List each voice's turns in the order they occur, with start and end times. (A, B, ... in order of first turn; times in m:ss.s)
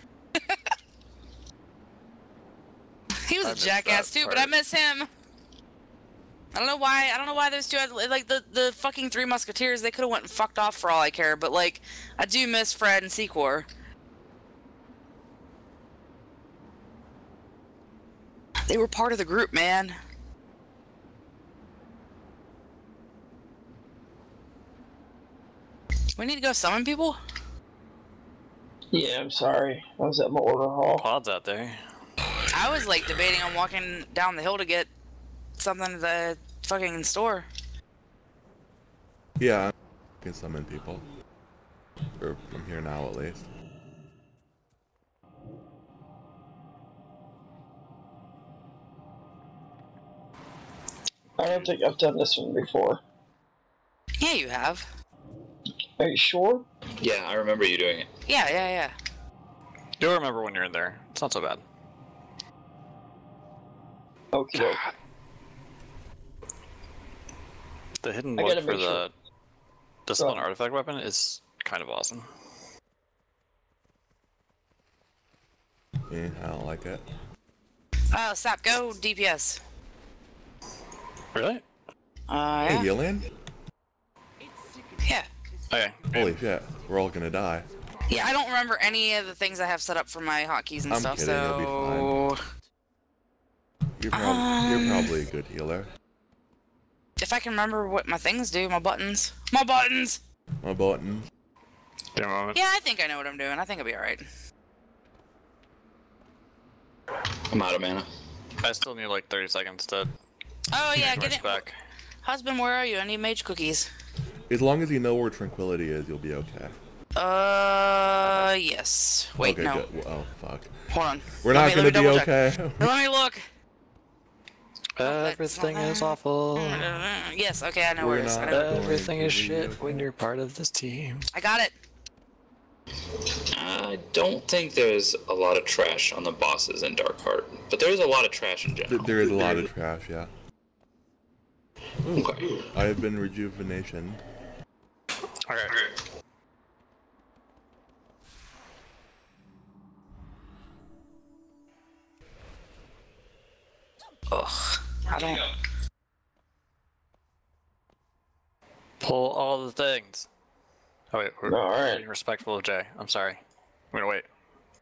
0:03.2-0:05.1 A
0:03.4-0:04.5 B
0:06.5-0:13.7 A
0:18.7-0:20.0 A
0:26.2-0:27.2 A
0:28.9-0:31.0 C
0:31.0-0:31.8 B
0:32.5-0:34.9 A
0:35.6-0:37.5 A
0:39.4-0:41.0 D
0:42.2-0:43.5 D
0:51.4-0:53.0 C
0:54.2-0:54.8 A
0:56.0-0:56.6 C
0:57.0-0:58.1 E
0:58.3-0:58.9 A
1:00.0-1:01.6 B
1:04.3-1:04.8 C
1:04.5-1:04.9 B
1:08.0-1:09.1 B
1:08.4-1:09.0 C
1:10.1-1:12.2 B
1:16.1-1:17.0 D
1:18.1-1:19.6 A
1:21.3-1:21.6 B
1:22.3-1:22.9 A
1:22.6-1:23.3 D
1:25.7-1:26.2 B
1:26.1-1:27.7 D
1:28.1-1:32.4 A
1:30.9-1:32.2 D
1:34.0-1:35.9 D
1:34.1-1:35.1 A
1:37.2-1:40.2 A
1:40.6-1:41.3 D
1:42.1-1:42.6 B
1:42.5-1:44.2 A
1:47.5-1:48.1 E
1:48.6-1:50.1 B
1:50.7-1:51.6 A
1:50.9-1:51.8 B
1:52.2-1:53.9 A
1:54.5-1:56.7 D
1:57.2-1:59.8 A
1:59.4-2:00.8 D
2:00.9-2:03.4 A
2:01.4-2:02.9 D
2:05.0-2:06.9 B
2:05.0-2:08.9 A
2:08.0-2:10.1 D
2:08.5-2:11.3 B
2:11.3-2:11.7 A
2:13.5-2:19.1 E
2:18.9-2:20.3 D
2:22.0-2:24.2 D
2:22.1-2:22.6 E
2:25.5-2:25.9 B
2:34.3-2:35.4 A
2:39.0-2:40.3 B
2:41.1-2:43.4 B
2:41.5-2:42.0 C
2:43.9-2:44.2 B